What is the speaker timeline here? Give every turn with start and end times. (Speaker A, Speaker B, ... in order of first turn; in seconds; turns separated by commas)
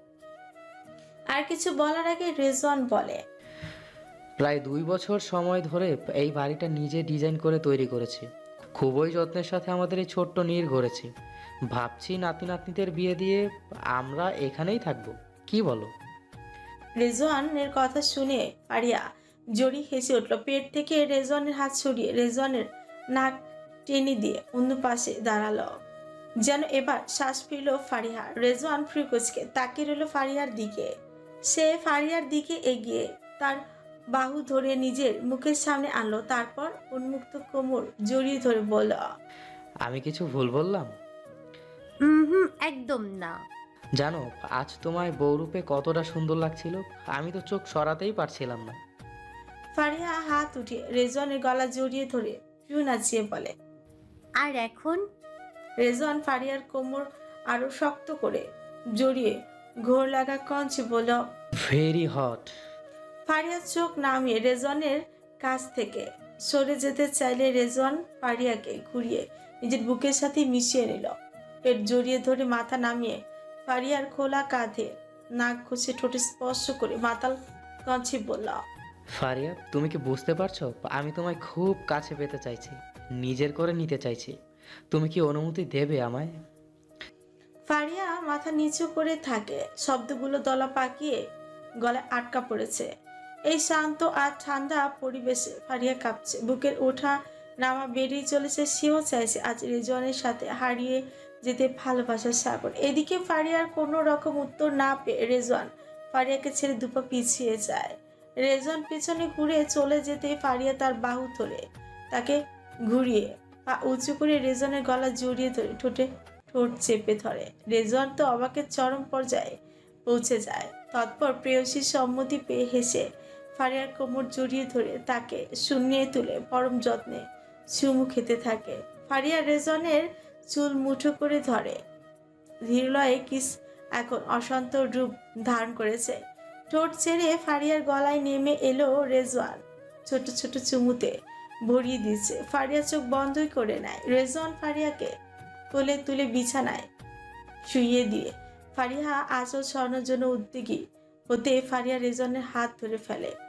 Speaker A: 1.3-3.2, Speaker B: 4.4-11.1, Speaker B: 11.7-13.4, Speaker B: 13.9-15.9, Speaker A: 17.0-19.0, Speaker A: 19.6-23.3, Speaker A: 23.9-25.7, Speaker A: 26.5-30.9, Speaker A: 31.5-33.6, Speaker A: 34.1-39.0, Speaker B: 39.8-40.9, Speaker C: 42.0-43.3, Speaker B: 44.0-48.8, Speaker A: 49.7-53.5, Speaker C: 54.4-55.0, Speaker A: 55.8-58.4, Speaker A: 59.0-59.3, Speaker A: 59.9-61.2, Speaker B: 61.6-62.5, Speaker A: 63.3-71.1, Speaker A: 71.6-78.6, Speaker B: 79.1-84.4, Speaker B: 84.9-86.4, Speaker A: 87.7-91.2, Speaker A: 91.8-92.9, Speaker A: 93.5-112.4, Speaker A: 112.9-119.5, Speaker A: 120.1-131.8, Speaker A: 132.7-136.2, Speaker A: 136.7-141.1, Speaker A: 141.7-145.1, Speaker A: 145.7-146.8, Speaker A: 147.6-153.3